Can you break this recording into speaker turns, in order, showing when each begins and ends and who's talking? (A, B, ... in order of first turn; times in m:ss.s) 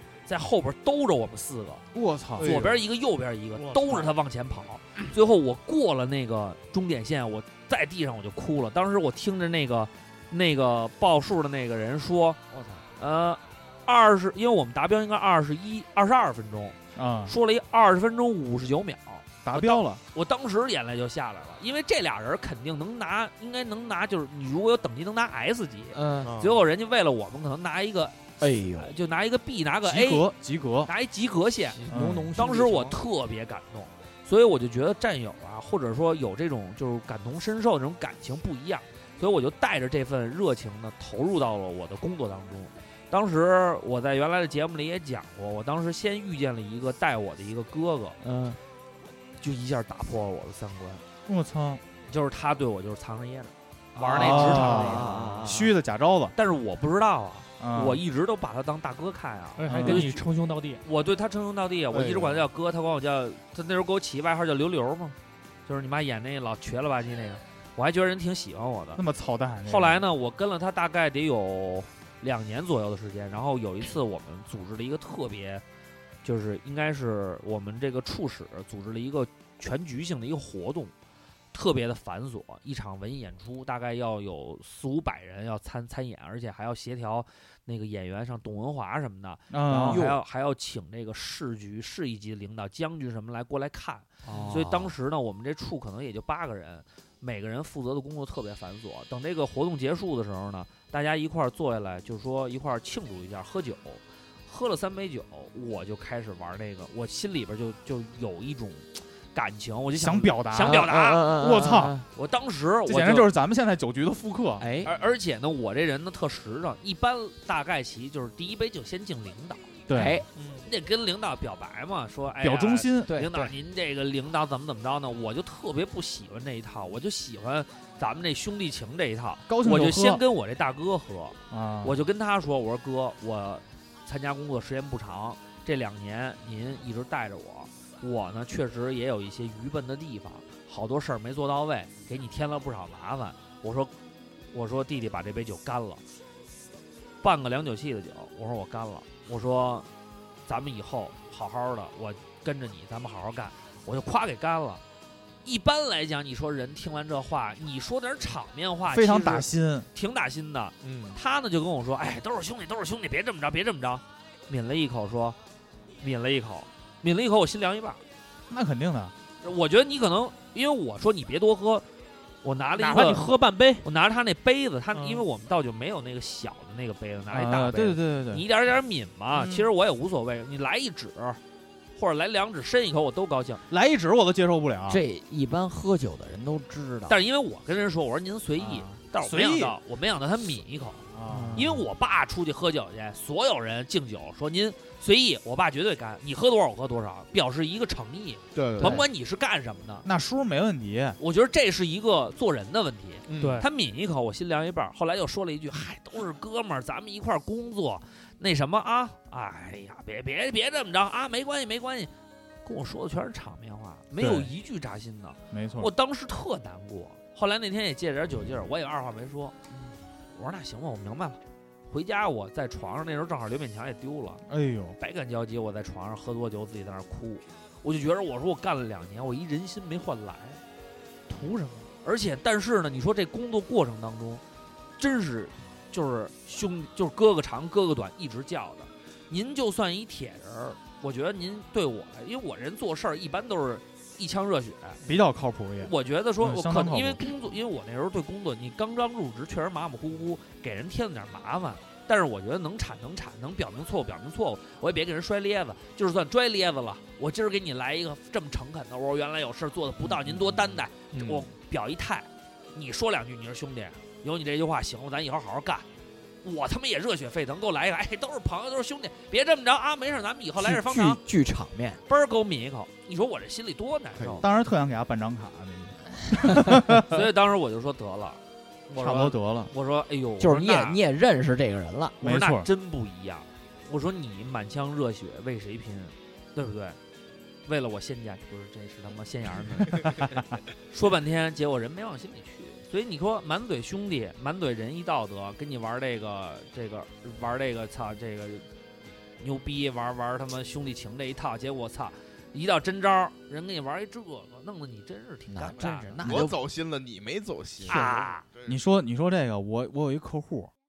0:00.3-0:01.8 A
0:01.9-0:02.6 B
0:02.4-0:02.8 C
0:02.4-0:12.4 A
0:03.6-0:04.0 D
0:12.5-0:12.9 D
0:13.0-0:30.2 A
0:16.9-0:17.3 B
0:19.4-0:20.0 B
0:25.9-0:26.4 D
0:26.2-0:26.6 C
0:28.4-0:28.9 D
0:29.8-0:30.9 B
0:30.8-0:31.8 A
0:31.7-0:33.0 D
0:31.9-0:32.3 B
0:32.3-0:48.2 A
0:48.2-0:48.6 D
0:49.4-0:51.0 A
0:51.2-0:51.8 B
0:52.1-0:55.5 A
0:54.0-0:55.7 D
0:54.1-0:56.3 B
0:56.4-1:00.2 A
0:57.6-0:58.0 B
0:59.6-1:00.8 E
0:59.6-1:00.2 B
1:00.8-1:09.0 A
1:01.9-1:02.5 C
1:08.9-1:10.0 B
1:09.7-1:15.6 A
1:16.2-1:20.9 A
1:21.5-1:51.3 A
1:29.5-1:30.1 B
1:29.8-1:30.2 D
1:34.2-1:34.9 D
1:34.3-1:34.5 C
1:49.9-1:52.0 B
1:50.6-1:52.0 D
1:52.1-1:53.3 A
1:52.8-1:54.6 B
1:54.6-1:54.9 D
1:54.8-1:59.7 A
1:59.9-2:00.2 B
1:59.9-2:00.2 D
2:00.4-2:00.7 E
2:00.6-2:23.9 A
2:02.4-2:03.2 B
2:03.1-2:03.5 D
2:09.5-2:10.2 B
2:11.5-2:12.0 B
2:24.5-2:26.0 A
2:27.2-2:29.9 A
2:30.5-2:34.8 A
2:35.4-2:45.4 A
2:38.9-2:39.9 B
2:40.8-2:41.1 C
2:46.0-2:48.0 A
2:48.5-2:49.1 B
2:49.4-2:51.8 A
2:52.4-3:01.4 A
2:52.8-2:53.8 E
2:54.9-2:55.2 E
2:57.3-2:58.4 B
2:59.3-2:59.6 D
3:02.0-3:03.6 A
3:03.7-3:05.0 B
3:04.9-3:07.2 D
3:07.1-3:20.0 A
3:08.6-3:09.8 B
3:11.1-3:11.8 B
3:11.3-3:11.7 E
3:18.5-3:19.0 C
3:20.0-3:21.2 B
3:21.2-3:32.1 A
3:23.3-3:23.6 C
3:23.4-3:23.7 E
3:32.6-3:39.5 A
3:34.2-3:34.5 B
3:35.5-3:35.9 B
3:40.3-3:44.4 A
3:44.5-3:45.0 B
3:45.0-3:50.6 A
3:51.3-3:51.9 E
3:52.0-3:54.4 A
3:55.0-4:05.0 A
4:05.0-4:07.3 B
4:05.8-4:25.8 A
4:26.4-4:31.2 A
4:30.6-4:32.0 D
4:32.1-4:34.5 A
4:34.2-4:34.4 C
4:34.4-4:37.2 B
4:37.0-4:41.0 A
4:39.0-4:39.7 B
4:40.4-4:42.2 D
4:42.2-4:42.7 B
4:42.2-4:47.0 A
4:47.6-4:50.4 A
4:50.0-4:50.6 B
4:50.9-4:58.6 A
4:59.4-5:06.5 A
5:05.5-5:06.6 D
5:06.2-5:08.8 C
5:07.8-5:08.4 A
5:07.9-5:08.3 D
5:08.6-5:10.7 B